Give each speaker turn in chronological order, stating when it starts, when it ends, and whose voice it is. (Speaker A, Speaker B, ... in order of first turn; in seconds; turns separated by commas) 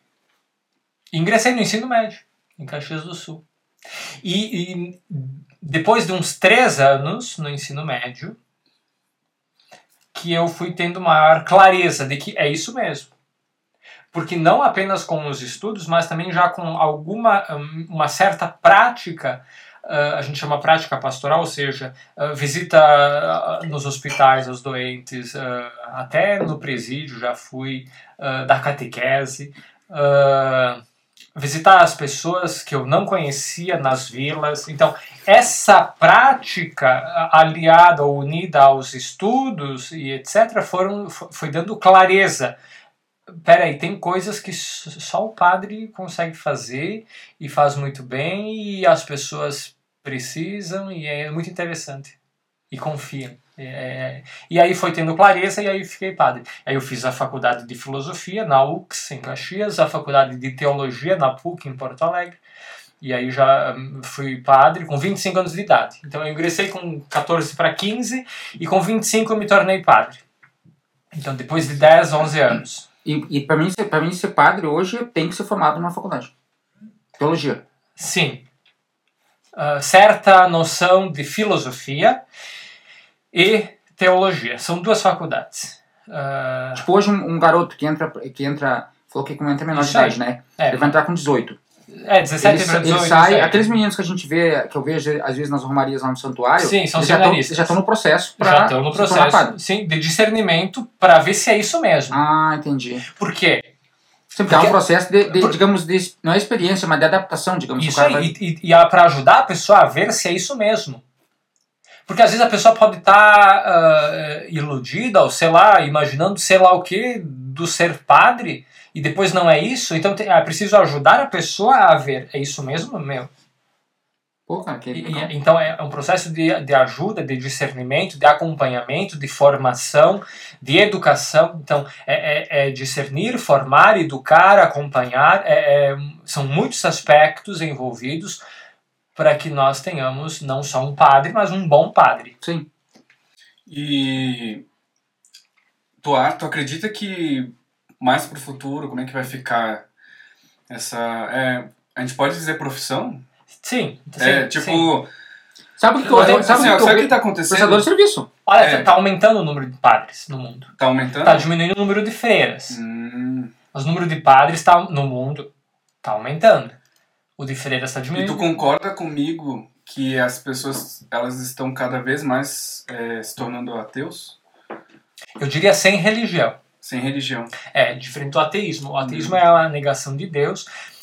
Speaker A: 1.1-3.4, Speaker A: 4.2-8.3, Speaker A: 10.1-13.1, Speaker A: 14.1-30.8, Speaker A: 31.3-42.5, Speaker A: 43.3-52.1, Speaker A: 52.7-62.4, Speaker A: 63.0-70.2, Speaker A: 71.1-72.8, Speaker B: 73.0-76.3, Speaker B: 77.2-77.6, Speaker A: 78.0-78.5, Speaker A: 79.5-82.2, Speaker A: 83.3-86.8, Speaker B: 86.7-91.6, Speaker A: 89.7-90.9, Speaker A: 91.9-93.7, Speaker B: 92.4-99.5, Speaker A: 96.6-97.8, Speaker A: 98.4-102.2, Speaker B: 102.1-103.0, Speaker A: 103.1-103.7, Speaker B: 104.3-108.3, Speaker A: 104.5-105.5, Speaker A: 107.8-111.0, Speaker A: 112.1-123.3, Speaker B: 124.5-125.3, Speaker A: 124.9-138.4, Speaker A: 139.1-142.3, Speaker B: 142.4-142.7, Speaker C: 143.7-144.6, Speaker C: 146.0-149.8, Speaker C: 150.7-153.2, Speaker A: 153.6-154.9, Speaker C: 154.2-155.1, Speaker B: 155.8-158.3, Speaker C: 156.0-157.9, Speaker A: 156.1-156.8, Speaker A: 158.4-160.7, Speaker C: 158.6-158.9, Speaker C: 160.8-161.5, Speaker A: 161.2-162.8, Speaker C: 162.7-163.5, Speaker A: 163.7-165.5, Speaker A: 166.0-166.8, Speaker A: 167.4-168.5, Speaker C: 168.1-174.4, Speaker A: 175.4-176.6, Speaker C: 176.8-177.5, Speaker A: 177.7-180.7, Speaker C: 179.0-179.3